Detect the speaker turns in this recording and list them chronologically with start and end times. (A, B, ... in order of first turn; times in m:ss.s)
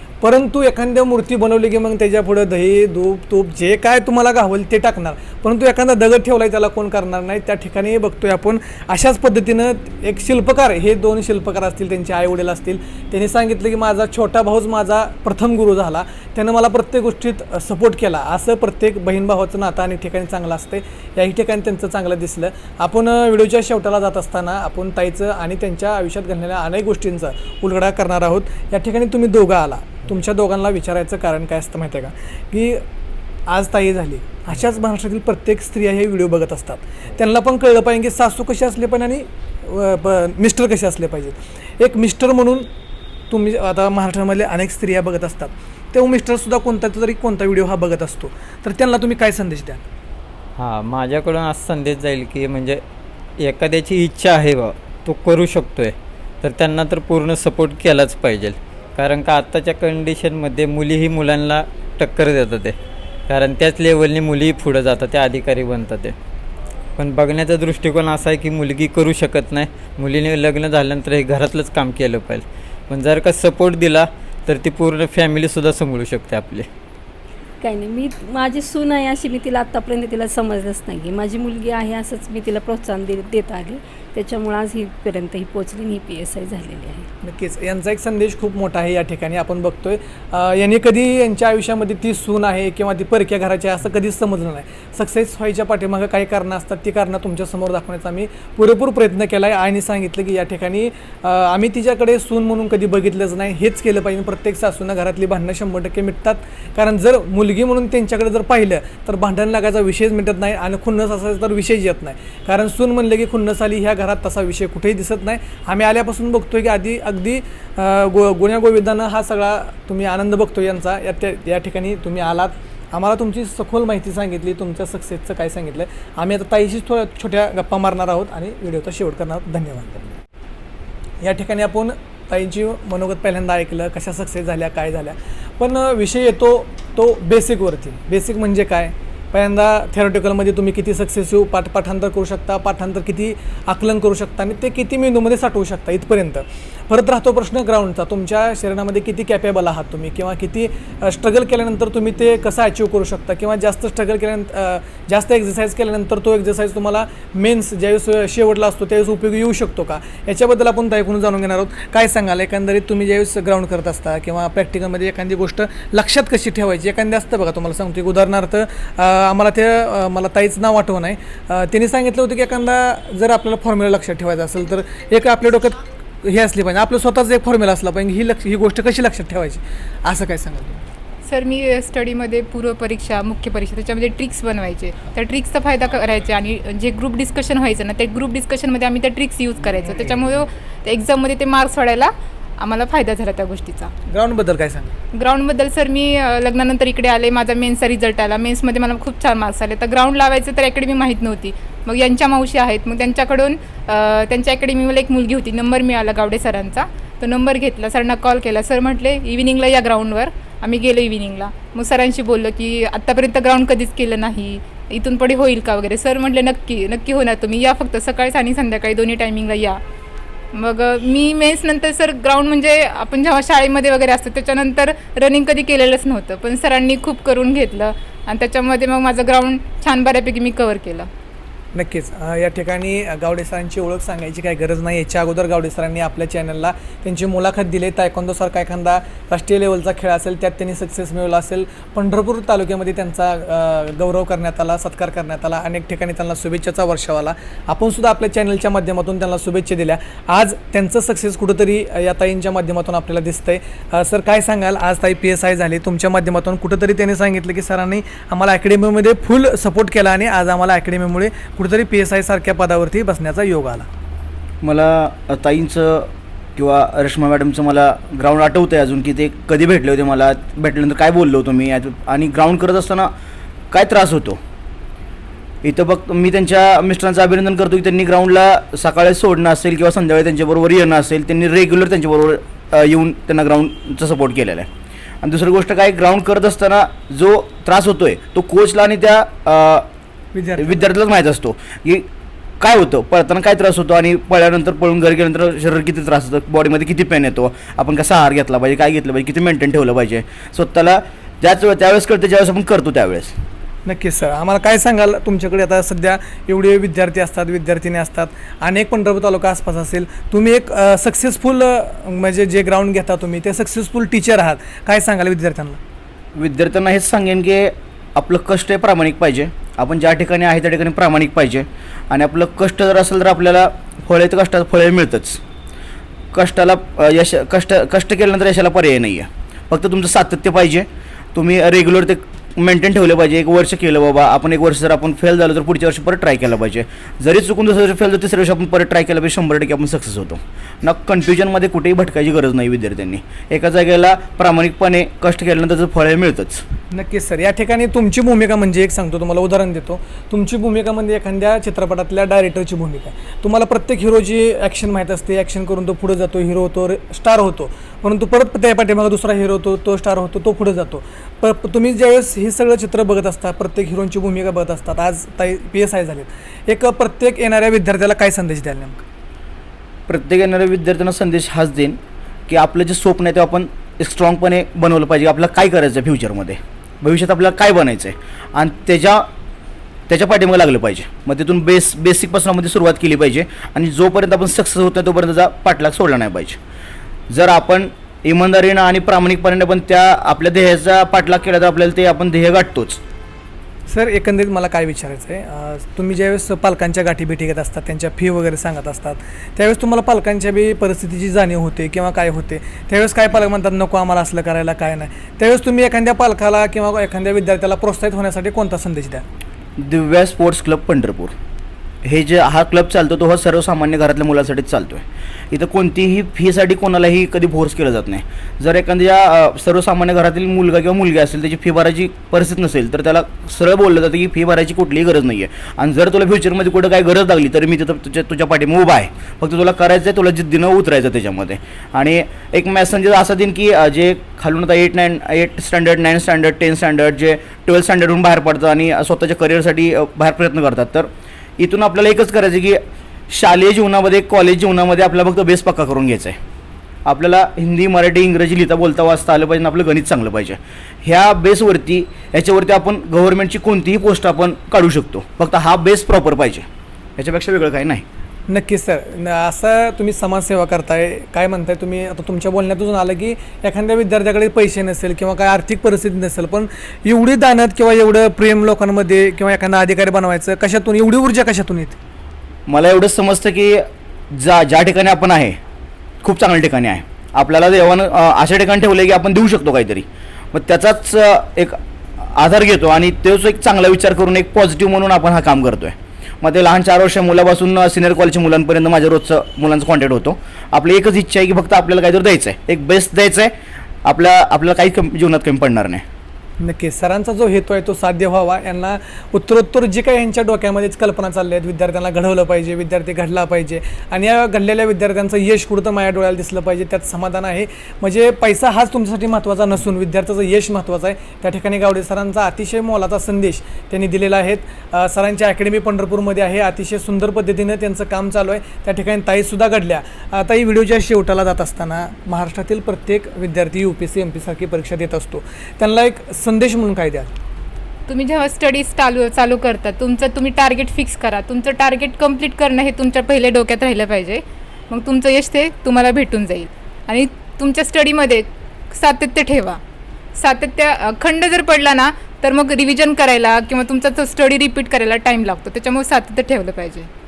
0:00.2-0:32.8 A
0:33.5-0:42.7 A
0:43.3-0:49.8 A
0:50.6-0:52.8 B
0:53.4-1:02.8 B
1:03.3-1:06.1 B
1:07.0-1:16.7 B
1:17.6-1:27.1 C
1:27.2-2:10.1 A
2:11.2-3:00.8 A
3:01.2-3:13.9 D
3:14.1-3:14.9 A
3:15.1-3:39.8 D
3:40.5-3:51.1 D
3:51.7-4:23.9 A
4:24.6-4:33.1 E
4:33.7-4:34.4 E
4:35.6-4:44.7 E
4:45.2-4:49.9 E
4:50.3-4:50.9 A
4:50.6-4:52.1 E
4:52.6-5:03.3 E
5:03.8-5:15.8 A
5:16.4-5:25.4 E
5:26.3-5:46.6 E
5:46.9-6:09.0 A
6:10.1-6:19.2 E
6:20.1-6:26.6 E
6:27.3-6:33.0 E
6:33.9-6:49.2 A
6:49.8-6:51.3 E
6:52.0-7:21.1 E
7:21.6-7:26.4 E
7:27.0-7:36.6 E
7:37.2-7:38.0 E
7:38.5-7:52.0 A
7:52.7-7:55.6 E
7:56.2-8:13.5 E
8:14.0-8:16.0 E
8:16.6-8:47.3 A
8:48.1-8:59.8 D
9:00.4-9:07.1 D